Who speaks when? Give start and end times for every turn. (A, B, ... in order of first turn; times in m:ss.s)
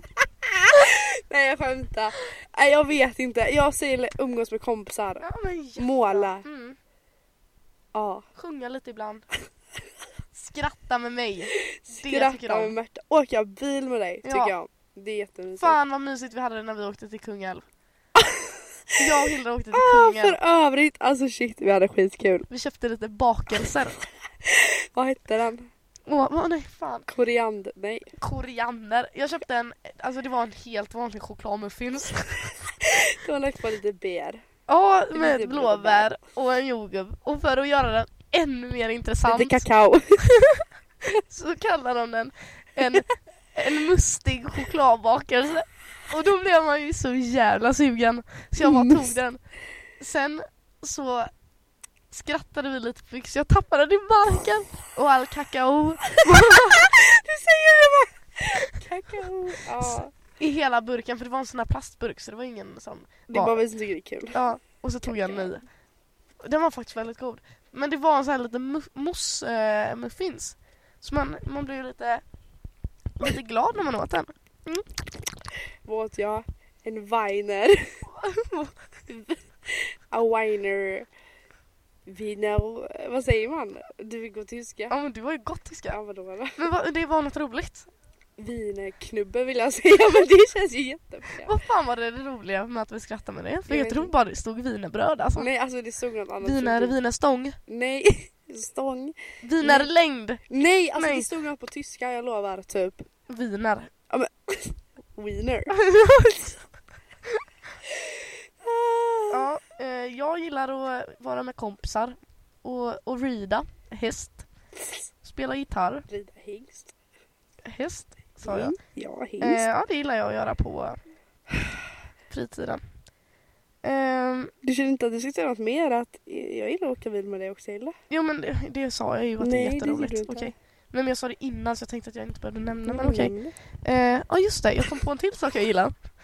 0:00.4-0:05.3 A
0:05.2-0:06.8 B
0:05.8-0:06.4 A
0:07.9-0:08.2 A
0:08.4-0:09.2 B
0:10.3-0:12.7 B
0:11.6-0:15.8 A
0:14.2-0:14.5 B
0:15.6-0:17.6 B
0:18.2-0:19.0 A
0:19.0-0:20.4 B
0:19.7-0:22.5 A
0:22.5-0:24.0 B
0:24.4-0:25.7 A
0:26.1-0:27.1 B
0:27.1-0:28.1 A
0:28.2-0:32.5 B
0:32.8-0:34.4 A
0:34.7-0:39.6 B
0:35.1-0:36.1 A
0:39.2-0:40.2 A
0:40.2-0:40.6 B
0:41.2-0:49.4 B
0:48.6-0:49.1 A
0:50.0-0:51.3 B
0:52.1-0:56.9 B
0:56.4-1:00.1 A
0:59.8-1:03.6 B
1:03.3-1:04.4 A
1:04.3-1:05.6 B
1:05.0-1:05.6 A
1:06.4-1:12.2 B
1:13.2-1:14.9 B
1:15.8-1:18.0 A
1:18.1-1:18.7 B
1:19.1-1:21.1 A
1:22.0-1:24.9 A
1:24.9-1:26.0 B
1:25.9-1:26.6 A
1:26.6-1:27.9 B
1:28.4-1:31.5 A
1:31.4-1:35.5 B
1:33.7-1:34.1 A
1:35.4-1:36.9 A
1:36.4-1:37.6 B
1:37.7-1:39.9 A
1:39.4-1:41.3 B
1:40.5-1:43.0 A
1:43.3-1:43.9 B
1:44.1-1:45.8 A
1:45.7-1:46.6 B
1:48.6-1:49.4 A
1:49.3-1:54.4 B
1:55.2-1:56.0 B
1:56.1-1:56.9 A
1:57.6-1:58.7 B
1:58.4-1:59.6 A
1:59.4-2:01.0 B
2:02.3-2:02.8 B
2:03.8-2:04.5 B
2:04.6-2:08.0 A
2:08.1-2:15.9 B
2:09.4-2:10.5 A
2:12.8-2:13.5 A